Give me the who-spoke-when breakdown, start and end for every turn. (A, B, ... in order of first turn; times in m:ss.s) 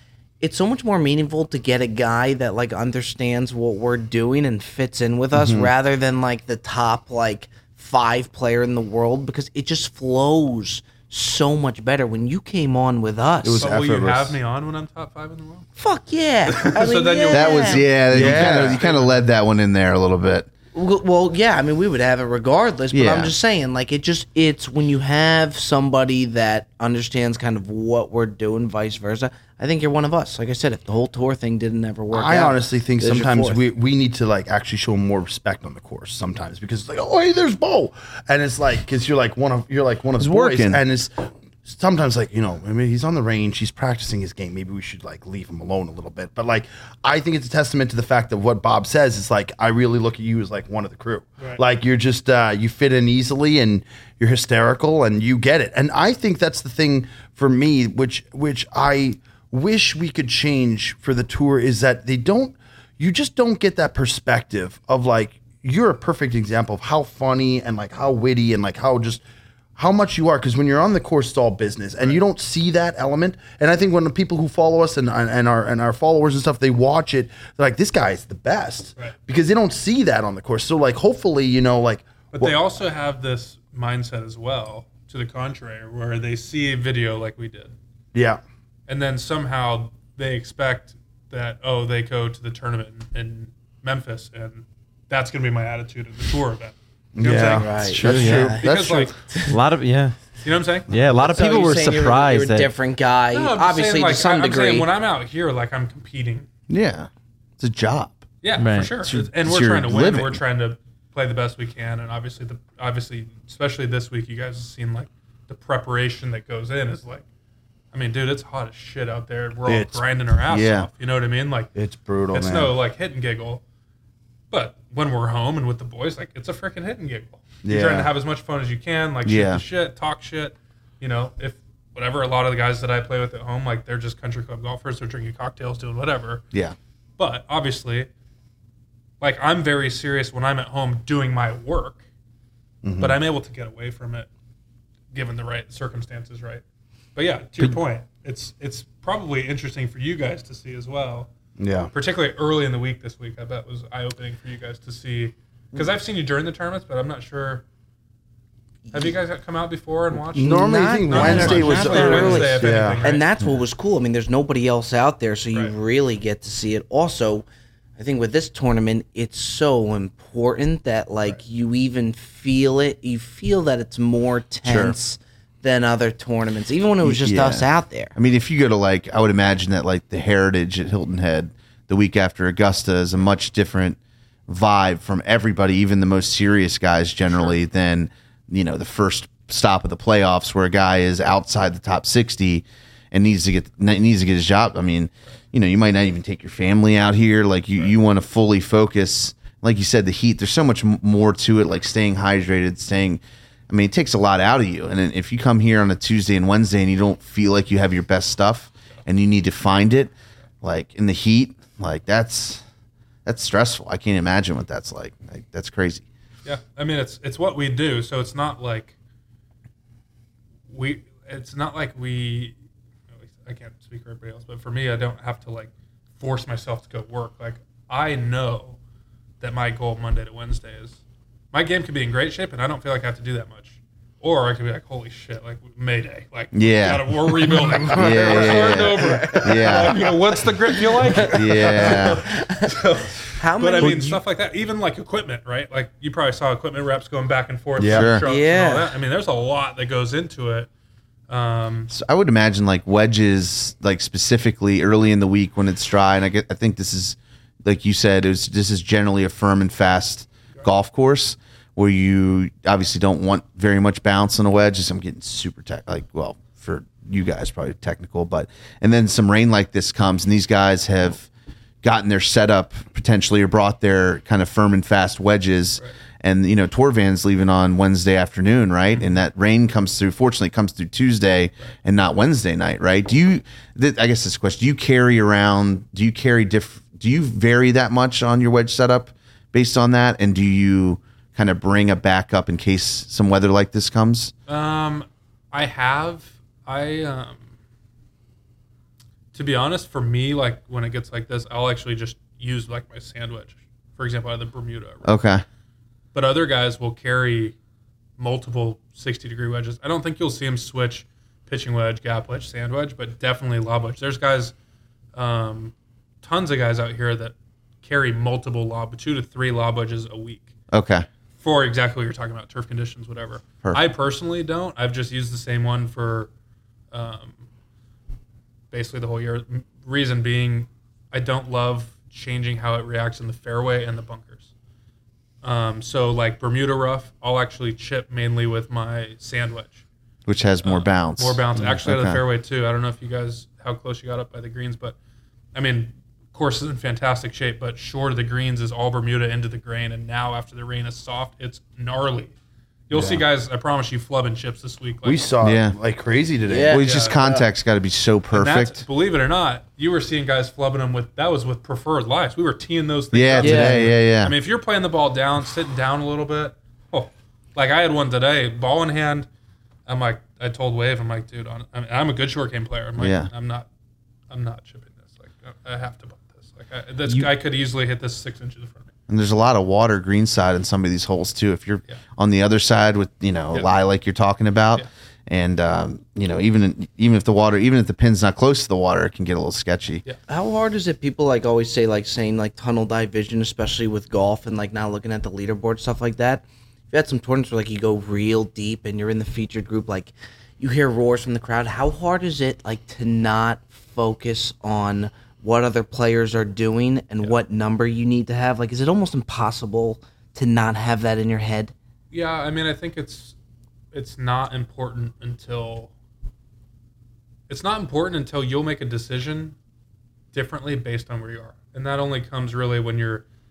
0:00.4-0:13.6 A
0:05.4-0:05.7 B
0:13.4-0:14.4 B
0:13.5-0:15.7 C
0:15.8-0:17.9 A
0:16.5-0:19.2 C
0:17.3-0:20.5 D
0:18.1-0:18.9 B
0:20.7-0:33.6 A
0:22.9-0:23.3 D
0:32.1-1:09.2 B
0:40.2-0:40.8 D
1:09.8-1:22.5 B
1:22.3-1:27.7 C
1:28.1-1:28.4 B
1:28.9-1:37.8 C
1:37.2-1:39.1 B
1:37.5-1:39.6 A
1:37.8-1:38.5 E
1:38.6-1:39.1 C
1:39.5-1:40.2 E
1:40.4-1:40.9 C
1:40.9-1:42.7 E
1:41.2-1:44.9 A
1:43.3-1:46.5 C
1:46.7-1:48.2 D
1:48.4-1:57.2 C
1:48.6-1:48.9 E
1:49.0-1:50.4 D
1:57.9-2:01.7 C
1:59.6-2:00.0 B
2:00.5-2:00.9 D
2:01.7-2:02.7 B
2:02.3-2:03.6 C
2:04.5-2:16.4 C
2:07.6-2:08.1 B
2:09.2-2:09.6 D
2:17.2-2:18.1 C
2:19.2-2:22.0 C
2:22.8-2:23.2 B
2:23.0-2:24.3 C
2:25.1-2:26.6 C
2:27.1-2:31.3 C
2:31.6-2:31.9 B
2:31.9-2:37.6 C
2:38.9-2:43.2 C
2:40.3-2:43.0 B
2:40.4-2:47.4 A
2:48.0-2:58.1 A
2:54.6-2:54.9 D
2:57.0-3:32.6 D
3:33.2-3:36.1 D
3:36.4-3:38.9 C
3:40.7-3:42.5 C
3:43.1-3:48.8 C
3:49.4-3:51.0 C
3:51.5-4:10.7 C
3:56.5-4:00.0 D
3:57.6-3:58.2 B
3:58.0-4:00.1 A
4:00.7-4:02.8 A
4:01.3-4:02.2 D
4:03.3-4:04.2 A
4:07.8-4:08.1 B
4:07.9-4:08.2 D
4:08.2-4:08.9 A
4:11.3-4:11.9 C
4:11.9-4:31.3 D
4:31.8-4:54.3 D
4:54.5-4:57.4 C
4:59.3-5:05.2 C
5:05.0-5:05.4 D
5:06.1-5:07.5 C
5:08.2-5:14.5 C
5:15.1-5:20.5 C
5:20.7-5:21.0 D
5:21.4-5:26.3 C
5:26.9-5:27.4 C
5:28.7-5:34.5 C
5:35.4-5:39.8 C
5:40.2-5:42.2 D
5:40.6-5:45.0 C
5:45.5-5:52.3 C
5:52.9-5:55.2 C
5:52.9-5:53.2 B
5:55.0-5:56.8 B
5:55.4-5:55.7 D
5:56.5-5:56.8 A
5:56.7-5:58.8 D
5:56.8-5:57.4 C
5:58.3-6:09.3 C
6:03.1-6:04.3 D
6:03.4-6:03.8 A
6:09.9-6:13.7 C
6:13.0-6:13.3 D
6:14.3-6:18.9 C
6:19.1-6:30.0 D
6:30.3-6:51.7 A
6:52.1-6:53.3 C
6:53.9-6:55.9 C
6:57.5-6:59.6 C
7:00.3-7:03.2 C